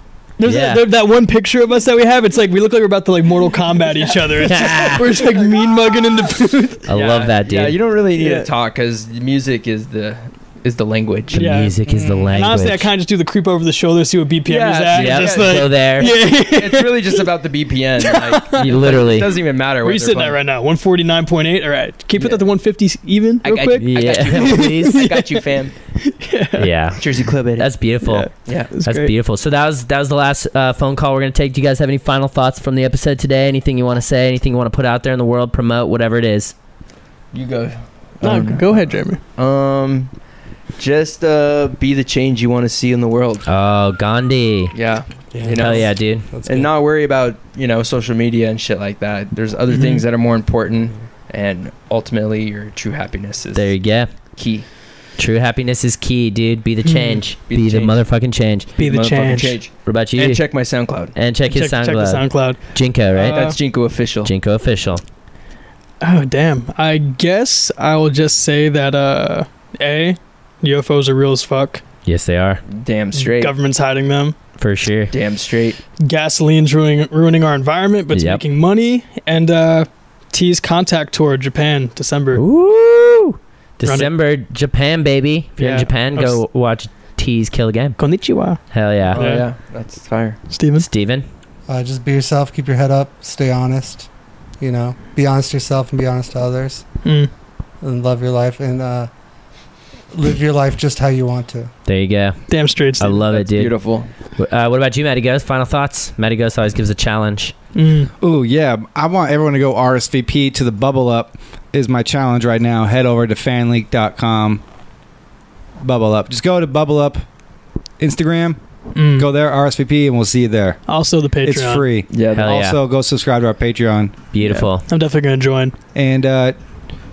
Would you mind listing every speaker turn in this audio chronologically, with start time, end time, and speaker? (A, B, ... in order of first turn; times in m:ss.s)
0:00.4-0:07.0 A
0:00.4-0:00.9 B
0:03.8-0:04.3 C
0:04.4-0:05.2 B
0:05.6-0:06.3 D
0:06.9-0:07.8 B
0:06.9-0:11.4 C
0:08.2-0:08.5 A
0:11.3-0:11.7 A
0:11.3-0:12.9 B
0:11.9-0:12.3 E
0:12.3-0:17.3 A
0:14.5-0:20.4 C
0:14.9-0:16.1 B
0:18.0-0:18.9 A
0:18.6-0:19.4 B
0:19.8-0:25.4 A
0:22.2-0:22.4 C
0:23.4-0:25.8 C
0:23.8-0:25.1 B
0:26.0-0:26.7 A
0:26.6-0:36.5 B
0:27.0-0:27.7 C
0:28.0-0:29.1 A
0:28.4-0:28.7 C
0:37.3-0:38.8 C
0:38.2-0:39.2 A
0:39.4-0:40.1 C
0:40.8-0:43.5 C
0:43.5-0:44.8 B
0:44.7-0:53.8 C
0:45.3-0:46.7 E
0:45.5-0:46.3 B
0:49.7-0:50.0 A
0:53.6-0:54.1 B
0:54.4-0:54.7 C
0:55.2-0:58.7 B
0:56.8-0:57.2 A
0:57.5-0:58.0 C
0:58.8-1:01.2 C
0:58.8-0:59.6 A
0:59.8-1:00.6 B
1:01.1-1:05.0 B
1:01.5-1:02.6 A
1:03.1-1:04.3 C
1:03.2-1:03.6 A
1:06.0-1:11.8 A
1:12.0-1:12.6 B
1:12.7-1:13.6 C
1:13.2-1:14.4 A
1:14.6-1:15.1 B
1:15.1-1:15.8 C
1:16.0-1:22.4 A
1:18.1-1:18.4 B
1:22.4-1:28.0 B
1:23.8-1:24.1 A
1:25.6-1:26.4 A
1:28.0-1:28.6 A
1:28.7-1:29.2 B
1:29.1-1:30.4 C
1:29.2-1:29.5 A
1:30.5-1:30.9 A
1:30.8-1:31.2 B
1:31.7-1:34.1 E
1:34.6-1:36.9 E
1:37.0-1:37.3 A
1:37.8-1:39.1 E
1:40.1-1:41.7 E
1:41.9-1:43.8 B
1:42.5-1:43.2 A
1:43.0-1:44.1 C
1:44.4-1:47.5 B
1:47.8-1:48.1 A
1:48.2-1:54.6 D
1:55.8-1:57.2 D
1:58.0-1:58.6 D
1:58.9-1:59.3 A
1:59.2-2:00.8 D
2:00.9-2:01.9 A
2:01.4-2:04.3 D
2:02.1-2:02.6 C
2:02.3-2:02.8 B
2:04.3-2:04.9 B
2:04.4-2:04.7 C
2:04.9-2:05.7 A
2:06.0-2:06.6 D